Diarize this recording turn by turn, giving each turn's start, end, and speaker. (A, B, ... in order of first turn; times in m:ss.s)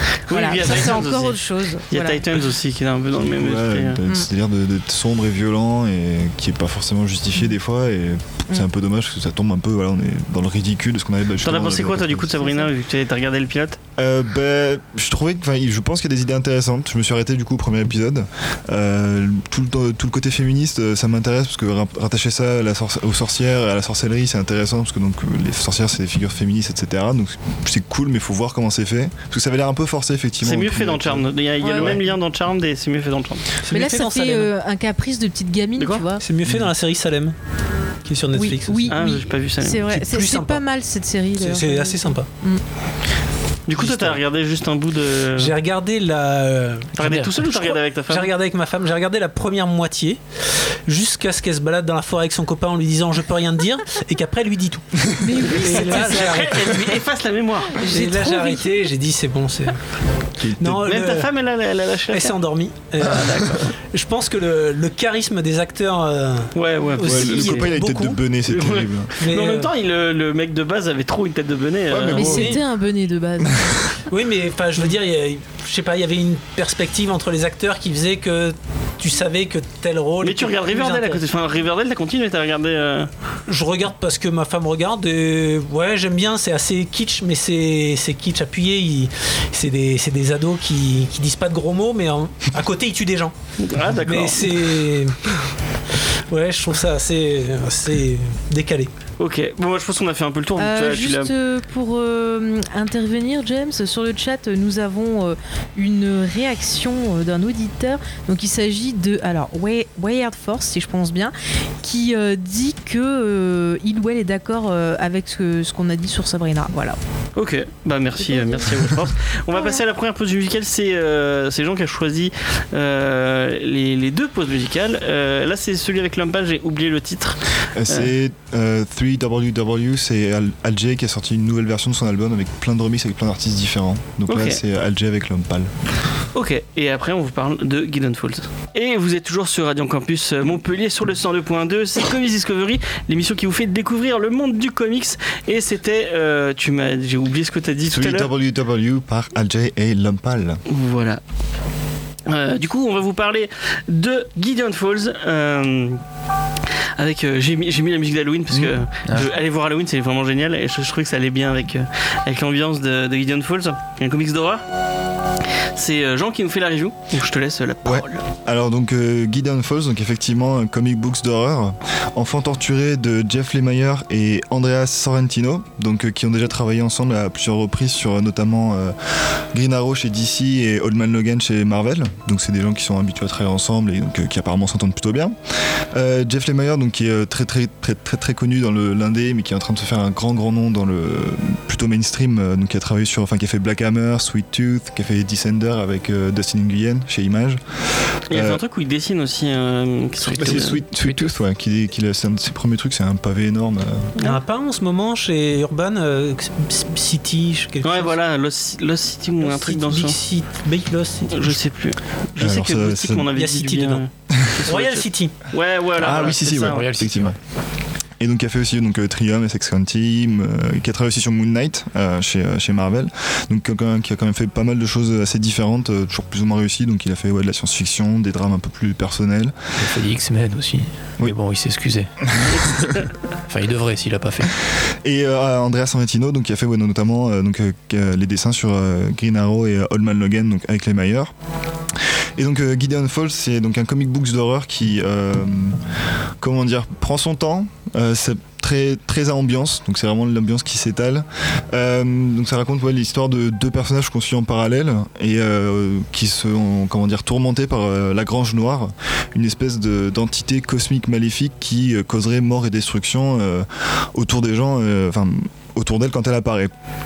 0:00.3-0:01.4 A
0:00.3-0:02.2 B
0:01.9-0:04.0 A
0:03.1-0:12.5 C
0:11.4-0:13.8 A
0:14.0-0:32.0 C
0:30.4-0:33.5 A
0:31.6-0:31.9 B
0:33.6-0:34.5 D
0:33.7-0:36.2 B
0:35.8-0:36.0 A
0:36.2-0:37.4 D
0:36.4-0:36.7 C
0:38.0-0:39.0 D
0:38.4-0:42.6 B
0:38.9-0:39.8 A
0:39.9-0:40.6 D
0:41.4-0:42.3 D
0:43.7-0:45.6 A
0:43.8-0:44.2 D
0:45.4-0:50.2 D
0:47.0-0:47.5 E
0:47.0-0:48.3 A
0:50.9-0:56.7 D
0:55.2-0:56.5 B
0:55.5-0:57.8 A
0:57.8-0:58.7 B
0:57.8-0:59.8 D
1:00.4-1:00.9 C
1:00.6-1:01.3 D
1:00.8-1:02.4 A
1:02.1-1:08.2 D
1:03.3-1:03.7 E
1:06.6-1:07.7 A
1:07.0-1:09.1 C
1:08.5-1:12.6 A
1:09.2-1:09.7 D
1:11.9-1:12.6 C
1:12.1-1:12.6 D
1:12.1-1:14.0 B
1:13.4-1:14.0 C
1:14.1-1:21.2 D
1:20.2-1:23.1 A
1:23.5-1:33.4 D
1:33.6-1:34.9 A
1:33.9-1:38.9 D
1:39.2-1:41.3 A
1:40.6-1:57.0 B
1:57.4-2:08.1 A
1:58.2-1:58.8 B
1:59.6-1:59.8 B
2:07.7-2:15.7 C
2:14.3-2:14.6 A
2:16.4-2:28.3 A
2:27.9-2:30.6 C
2:30.7-2:31.2 A
2:32.3-2:36.0 A
2:37.0-2:44.6 A
2:38.5-2:39.2 C
2:45.7-2:48.2 A
2:47.8-3:05.4 C
3:05.9-3:17.6 C
3:18.3-3:18.6 C
3:18.3-3:20.8 A
3:20.2-3:21.3 E
3:20.4-3:24.1 C
3:24.2-3:28.2 D
3:27.8-3:30.2 A
3:29.4-3:31.6 D
3:31.3-3:36.8 A
3:32.4-3:33.3 C
3:33.3-3:34.0 D
3:34.3-3:34.7 C
3:34.6-3:35.4 D
3:36.0-3:37.4 C
3:36.1-3:37.4 E
3:38.2-3:49.5 C
3:49.8-3:54.5 E
3:52.3-3:52.6 C
3:55.0-4:01.3 C
4:02.4-4:05.8 C
4:06.4-4:26.7 C